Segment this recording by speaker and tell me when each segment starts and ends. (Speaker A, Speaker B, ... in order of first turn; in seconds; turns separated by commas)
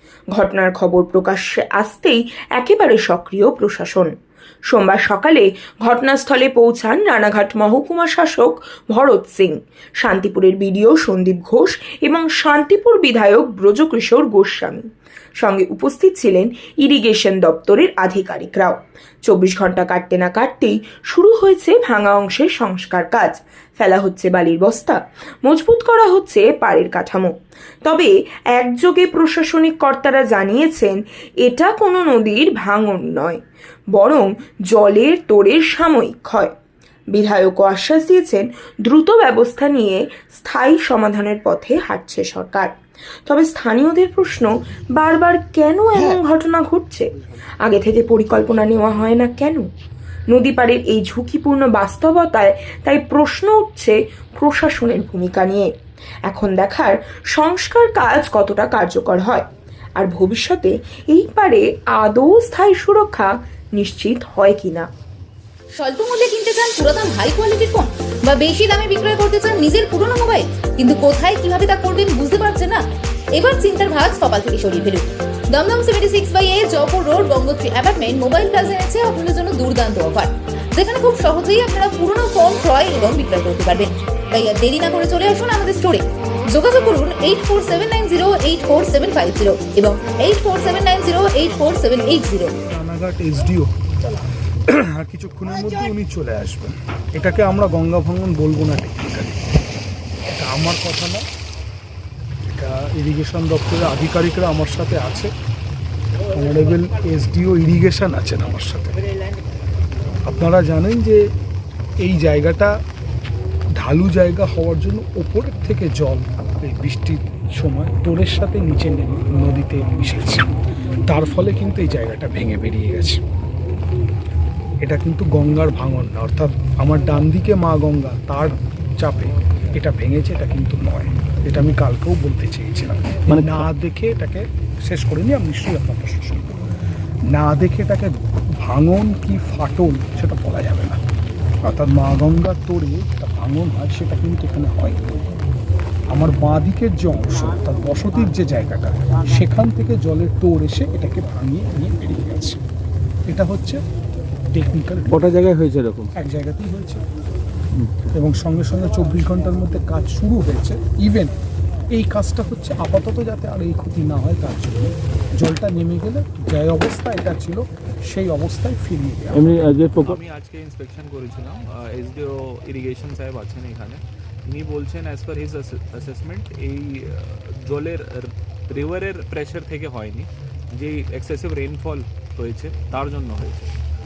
Speaker A: 0.3-4.1, Speaker A: 4.7-14.9, Speaker A: 15.4-27.3, Speaker A: 27.8-33.4, Speaker A: 33.9-36.5, Speaker A: 37.1-42.7, Speaker A: 43.2-47.1, Speaker A: 47.6-49.7, Speaker A: 50.3-55.7, Speaker A: 56.3-64.9, Speaker B: 65.8-72.8, Speaker B: 73.4-92.5, Speaker C: 92.7-99.4, Speaker C: 100.3-101.2, Speaker C: 102.4-105.3, Speaker C: 106.3-109.0, Speaker C: 110.2-111.3, Speaker C: 112.0-112.8, Speaker C: 113.8-120.5, Speaker C: 121.1-123.2, Speaker C: 124.8-136.5, Speaker D: 133.3-133.6, Speaker C: 137.3-141.0, Speaker C: 141.7-145.2, Speaker C: 146.1-152.6, Speaker C: 153.3-153.8, Speaker C: 154.5-155.3, Speaker D: 155.1-156.1, Speaker C: 156.2-157.0, Speaker D: 157.8-158.0, Speaker C: 158.1-161.3, Speaker C: 161.9-169.7, Speaker D: 169.3-170.2, Speaker E: 169.9-183.7